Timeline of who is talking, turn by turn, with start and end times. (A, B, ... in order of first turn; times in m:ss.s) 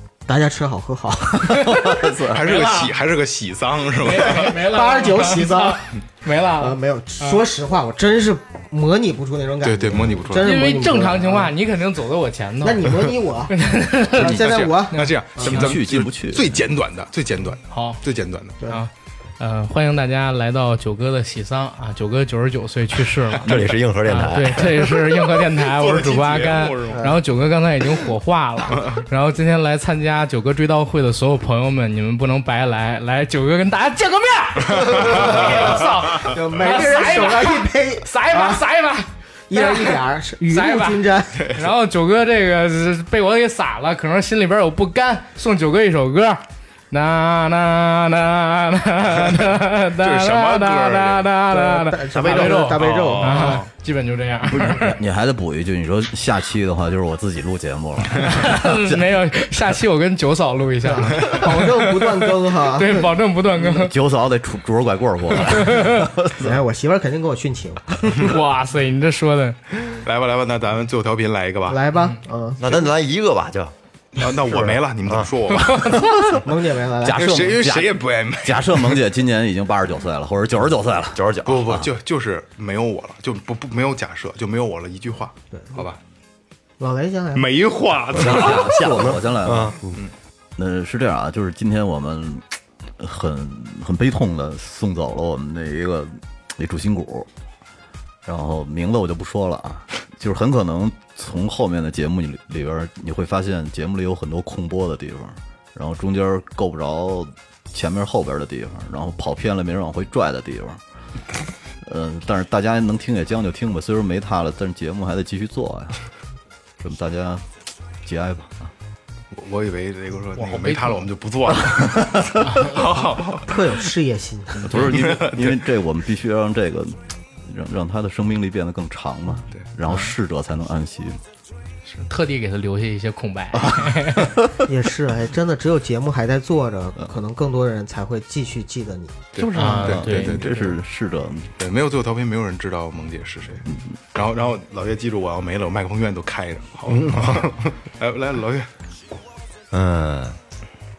0:00.2-0:02.1 A
0:01.5-0:01.8 B
0:01.5-0:02.5 C
0:02.3-0:04.6 D
0:02.4-0:02.9 B
0:04.0-0:07.4 B
0:04.2-0:06.0 A
0:06.5-0:11.5 A
0:09.6-0:10.5 D
0:10.3-0:15.1 B
0:12.6-0:13.5 A
0:14.2-0:15.7 A
0:14.2-0:14.5 C
0:14.3-0:18.6 D
0:15.4-0:16.6 C
0:17.7-0:18.0 B
0:18.6-0:55.0 B
0:23.4-0:25.0 E
0:25.5-0:27.1 D
0:34.7-0:35.7 D
0:34.8-0:38.6 A
0:39.5-0:41.6 A
0:50.0-0:51.3 D
0:51.5-0:53.6 A
0:52.2-0:53.7 D
0:54.5-0:59.0 C
0:58.2-1:03.9 B
1:00.8-1:03.0 A
1:03.6-1:06.5 C
1:05.4-1:06.1 B
1:06.3-1:08.3 A
1:08.2-1:09.6 B
1:09.9-1:11.8 D
1:11.7-1:12.6 A
1:12.6-1:13.7 E
1:14.2-1:16.1 D
1:14.2-1:15.3 E
1:15.6-1:16.1 B
1:16.3-1:17.4 A
1:17.0-1:21.9 C
1:17.1-1:19.0 D
1:21.1-1:21.8 E
1:21.4-1:26.0 D
1:25.5-1:25.8 A
1:26.8-1:27.6 A
1:27.3-1:28.9 D
1:28.1-1:29.8 C
1:29.4-1:29.8 E
1:30.6-1:32.4 C
1:33.0-1:37.3 C
1:38.2-1:50.8 C
1:51.8-1:56.0 C
1:56.8-1:57.4 C
1:58.0-1:58.7 C
1:59.3-2:03.5 D
2:00.4-2:01.0 B
2:02.4-2:03.0 B
2:03.4-2:04.7 A
2:04.6-2:11.2 C
2:04.7-2:05.6 D
2:12.0-2:14.3 B
2:13.5-2:14.6 C
2:14.7-2:19.3 A
2:19.3-2:20.8 D
2:19.4-2:21.5 C
2:19.5-2:20.4 B
2:21.6-2:28.7 D
2:26.9-2:27.6 E
2:29.7-2:30.4 E